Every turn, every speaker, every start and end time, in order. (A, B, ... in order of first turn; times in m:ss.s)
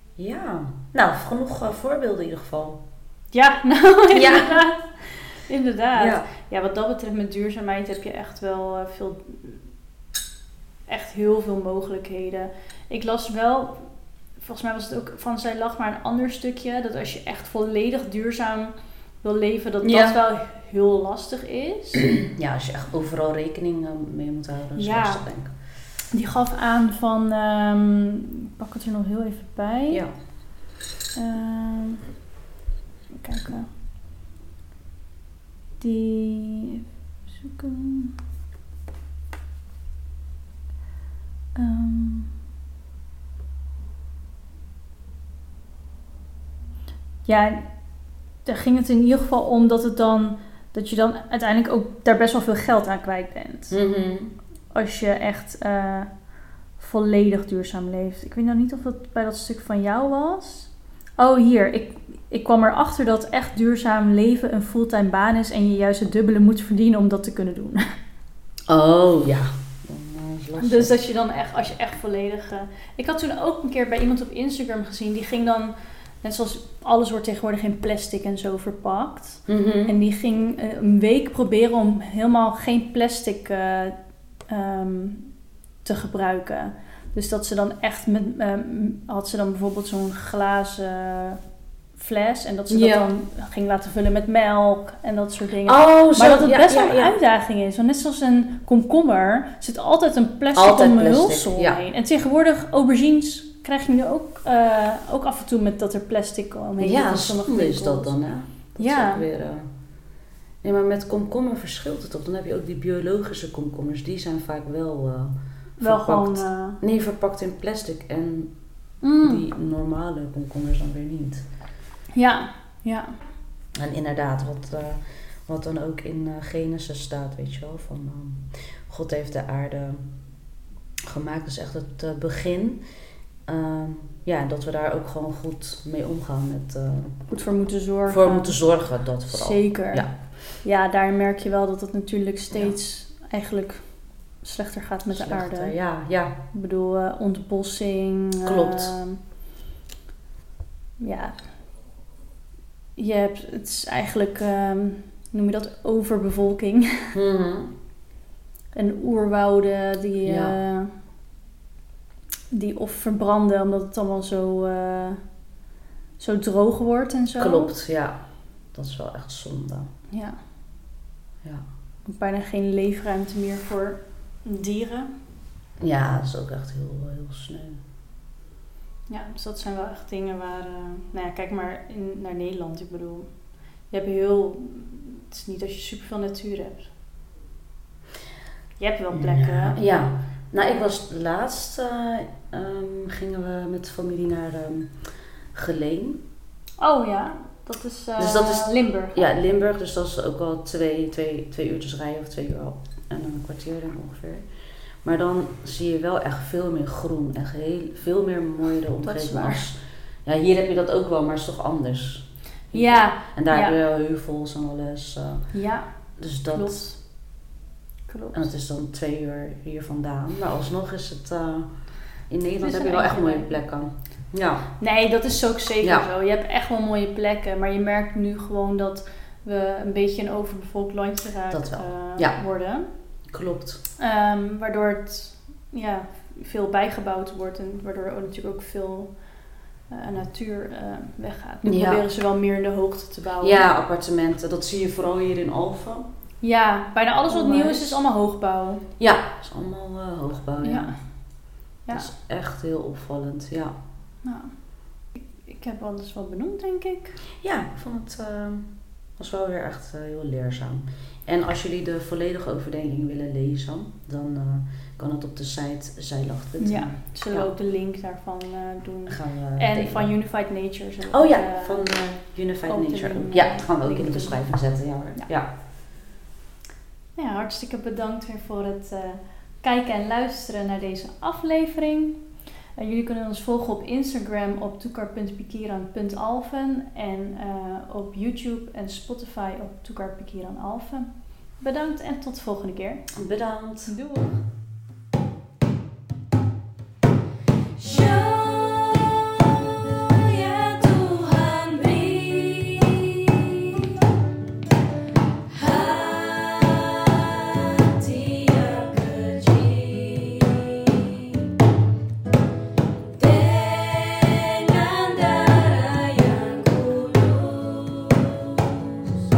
0:00.2-0:02.8 A
0:03.3-0:09.6 B
0:04.1-0:04.6 A
0:05.9-0:06.3 A
0:10.9-0:13.8 B
0:14.4-0:22.0 B
0:19.8-0:20.2 A
0:22.0-0:25.5 A
0:24.7-0:25.2 B
0:26.1-0:30.0 B
0:31.2-0:32.1 B
0:33.1-0:33.7 B
0:35.8-0:36.8 B
0:37.4-0:38.1 B
0:41.5-0:42.3 B
0:47.2-0:47.6 B
0:48.4-0:53.8 B
0:53.7-0:54.3 A
0:54.7-0:56.1 B
0:56.8-1:07.8 B
1:08.7-1:10.9 A
1:10.6-1:23.9 B
1:19.5-1:19.9 A
1:24.5-1:25.3 B
1:25.8-1:31.4 B
1:32.0-1:48.2 B
1:32.7-1:33.0 A
1:35.6-1:37.1 A
1:40.5-1:41.8 A
1:46.8-1:49.7 A
1:48.8-1:49.2 B
1:50.6-1:58.5 A
1:55.8-1:56.8 B
1:59.0-1:59.4 B
1:59.2-2:01.4 A
2:02.1-2:03.1 B
2:03.7-2:10.0 A
2:11.1-2:12.8 A
2:13.5-2:17.1 A
2:17.3-2:18.6 B
2:18.1-2:20.1 A
2:19.3-2:20.1 B
2:20.6-2:23.8 B
2:24.4-2:25.7 B
2:25.1-2:26.4 A
2:26.5-2:29.2 B
2:28.4-2:28.9 A
2:31.0-2:31.4 B
2:33.0-2:37.1 B
2:37.1-2:37.7 A
2:38.7-2:40.9 B
2:40.2-2:40.6 A
2:42.5-2:45.2 B
2:46.2-2:47.7 B
2:47.4-2:48.2 A
2:48.7-2:49.9 A
2:50.1-2:50.4 B
2:52.0-2:55.1 B
2:55.8-2:57.8 A
2:59.1-3:03.3 B
3:03.9-3:06.9 B
3:08.8-3:09.8 B
3:09.1-3:14.9 A
3:15.5-3:16.2 A
3:16.8-3:19.2 B
3:18.2-3:24.4 A
3:25.0-3:35.5 A
3:29.0-3:29.7 B
3:32.7-3:33.8 B
3:35.5-3:35.9 B
3:36.2-3:36.8 A
3:36.5-3:37.0 B
3:38.1-3:38.5 B
3:38.3-3:41.7 A
3:42.3-3:44.7 A
3:42.6-3:43.5 B
3:44.8-3:52.9 B
3:51.5-3:52.4 A
3:53.3-3:53.8 A
3:54.0-3:59.1 B
3:59.9-4:03.6 B
4:01.6-4:02.0 A
4:03.4-4:06.0 A
4:06.4-4:08.8 B
4:07.3-4:08.0 A
4:09.0-4:10.9 A
4:10.6-4:10.9 B
4:11.9-4:13.7 A
4:14.2-4:14.5 B
4:15.2-4:17.2 B
4:17.4-4:27.5 A
4:26.6-4:31.9 B
4:29.1-4:30.1 A
4:31.1-4:35.5 A
4:32.7-4:34.4 B
4:37.2-4:42.2 B
4:42.8-4:51.1 B
4:51.6-4:53.1 B
4:53.2-4:53.9 A
4:53.9-4:54.4 B
4:58.4-4:59.1 A
5:00.5-5:03.8 A
5:05.6-5:11.0 A
5:13.3-5:18.5 A